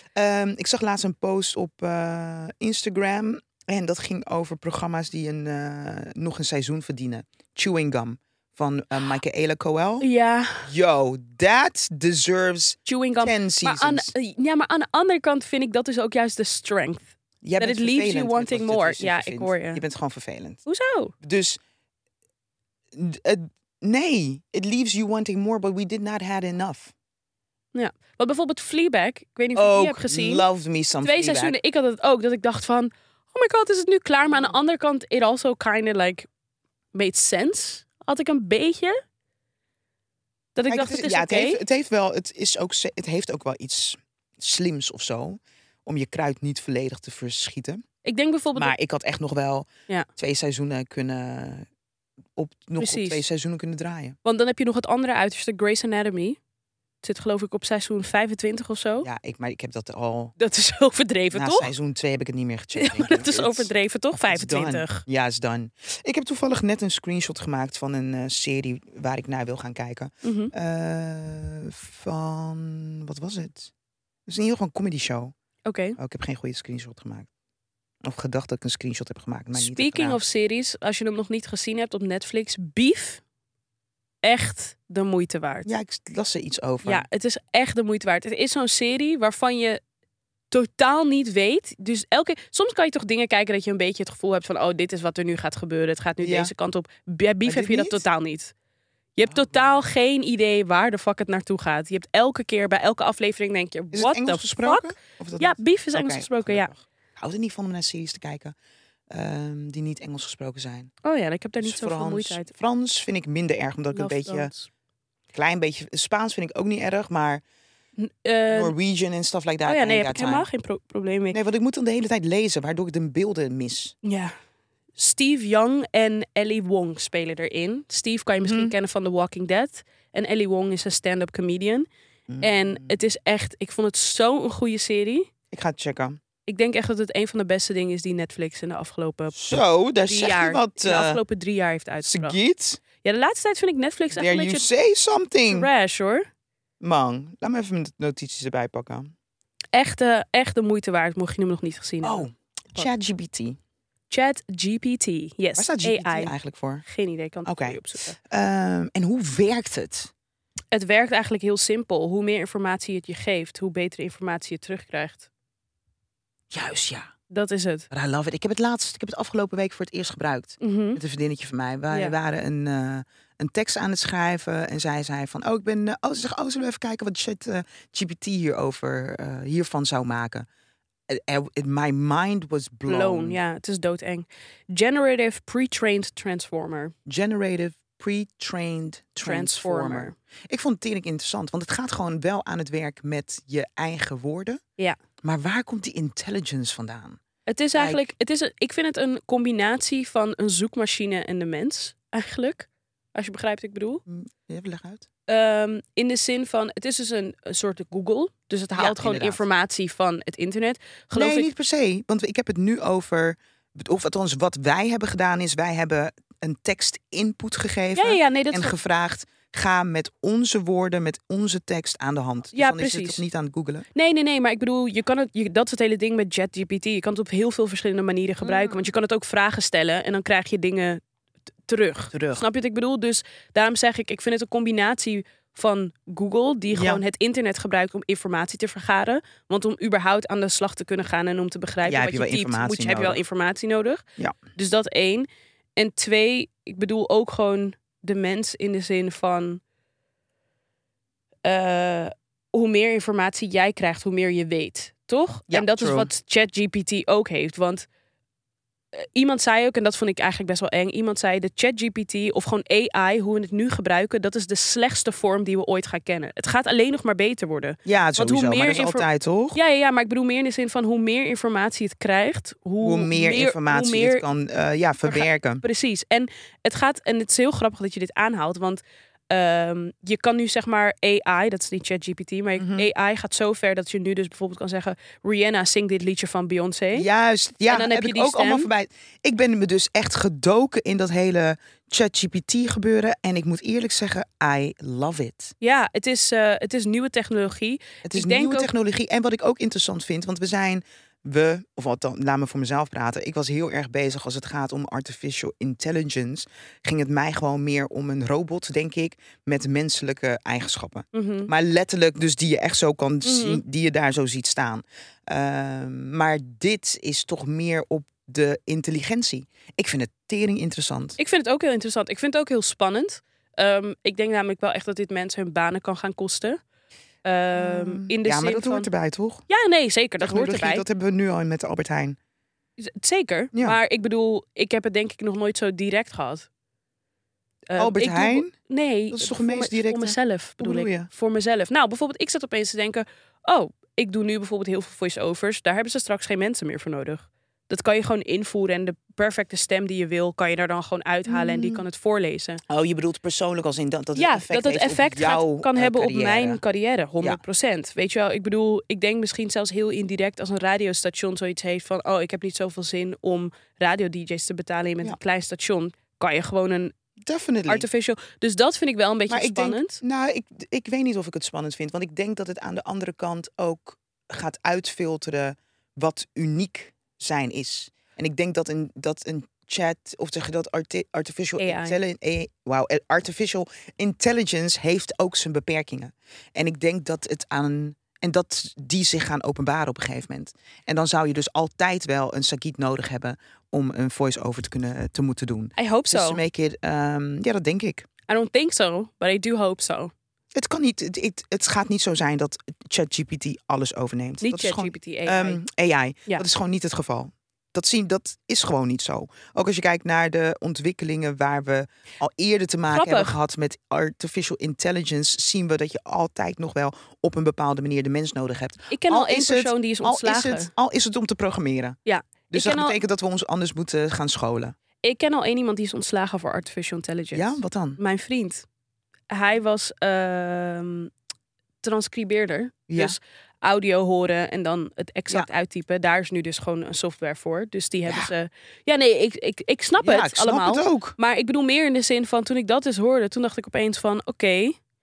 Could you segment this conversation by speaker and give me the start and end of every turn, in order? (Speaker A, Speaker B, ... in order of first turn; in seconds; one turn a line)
Speaker A: 0.1-10.1
Speaker B: 10.0-10.7
Speaker A: 10.6-14.1
Speaker B: 12.8-19.8
Speaker A: 17.4-20.6
Speaker B: 20.6-21.1
Speaker A: 21.2-21.6
Speaker A: 22.9-26.9
Speaker B: 27.7-30.4
Speaker A: 29.5-31.6
Speaker B: 31.0-36.3
Speaker B: 36.9-39.0
Speaker B: 40.5-41.6
Speaker A: 40.7-47.8
Speaker B: 48.0-48.7
Speaker A: 48.5-51.7
Speaker A: 52.4-54.2
Speaker B: 52.8-53.2
Speaker B: 54.2-56.4
Speaker B: 57.0-59.1
Speaker A: 59.0-60.3
Speaker B: 60.4-61.7
Speaker A: 61.3-73.7
Speaker B: 62.8-65.0
Speaker B: 70.2-70.5
Speaker A: 74.3-75.3
Speaker B: 75.6-76.0
Speaker A: 76.0-77.3
Speaker A: 78.0-80.2
Speaker B: 79.5-83.2
Speaker B: 84.2-85.7
Speaker A: 85.6-87.0
Speaker B: 86.8-89.8
Speaker B: 90.5-98.5
Speaker A: 96.2-96.5
Speaker A: 97.4-98.0
Speaker B: 99.2-106.7
Speaker A: 99.3-99.6
Speaker A: 103.9-108.5
Speaker A: 109.1-110.9
Speaker B: 111.0-112.5
Speaker A: 111.6-114.5
Speaker B: 113.9-114.7
Speaker A: 115.3-117.4
Speaker B: 118.0-118.7
Speaker A: 118.5-120.5
Speaker B: 119.6-121.4
Speaker A: 121.3-123.9
Speaker B: 124.0-124.3
Speaker B: 125.0-131.9
Speaker A: 128.4-128.7
Speaker A: 132.3-132.9
Speaker B: 132.4-135.3
Speaker A: 135.5-136.2
Speaker B: 136.4-142.4
Speaker A: 139.3-141.2
Speaker A: 142.0-142.8
Speaker B: 143.0-144.7
Speaker A: 144.2-145.7
Speaker B: 145.5-146.2
Speaker A: 146.8-149.1
Speaker B: 149.7-152.9
Speaker A: 152.0-153.6
Speaker B: 154.1-156.3
Speaker A: 155.6-156.8
Speaker B: 156.8-158.2
Speaker A: 157.4-160.1
Speaker B: 160.7-165.3
Speaker A: 166.5-167.1
Speaker B: 167.3-167.9
Speaker A: 167.9-180.4
Speaker B: 170.6-171.0
Speaker A: 181.1-183.4
Speaker B: 182.9-186.9
Speaker A: 187.1-194.6
Speaker B: 189.2-190.1
Speaker A: 195.2-197.2
Speaker B: 197.5-204.0
Speaker A: 197.7-198.1
Speaker A: 204.1-205.1
Speaker B: 205.3-211.5
Speaker A: 208.7-209.4
Speaker A: 211.1-223.8
Speaker B: 217.9-218.7
Speaker B: 222.5-223.2
Speaker B: 223.9-231.0
Speaker A: 228.4-228.8
Speaker B: 231.7-244.0
Speaker A: 232.1-232.4
Speaker A: 236.7-237.0
Speaker A: 241.8-243.2
Speaker B: 244.6-249.6
Speaker B: 251.4-257.9
Speaker A: 255.5-256.1
Speaker B: 258.9-274.2
Speaker A: 267.8-269.6
Speaker A: 272.8-275.6
Speaker B: 275.0-287.1
Speaker A: 282.6-282.9
Speaker A: 286.9-295.5
Speaker B: 287.7-288.7
Speaker B: 295.6-298.7
Speaker A: 298.0-321.2
Speaker B: 311.1-311.5
Speaker B: 313.2-313.6
Speaker B: 321.2-326.6
Speaker B: 327.2-328.9
Speaker A: 327.5-329.4
Speaker B: 329.5-330.9
Speaker A: 330.2-332.2
Speaker B: 332.8-336.5
Speaker B: 337.7-352.6
Speaker A: 337.8-338.5
Speaker A: 339.1-341.1
Speaker A: 351.3-351.8
Speaker A: 352.7-356.6
Speaker B: 354.1-366.9
Speaker A: 367.2-367.9
Speaker B: 367.7-370.0
Speaker A: 369.3-398.1
Speaker B: 381.6-382.0
Speaker B: 395.8-396.4
Speaker B: 398.3-400.1
Speaker A: 400.5-422.0
Speaker B: 404.4-405.6
Speaker B: 412.9-413.3
Speaker B: 418.9-420.7
Speaker B: 422.1-423.0
Speaker A: 422.5-424.7
Speaker B: 425.0-428.6
Speaker A: 427.3-428.0
Speaker B: 429.3-431.1
Speaker B: 431.8-444.8
Speaker A: 432.9-433.2
Speaker A: 438.1-438.3
Speaker A: 440.0-441.1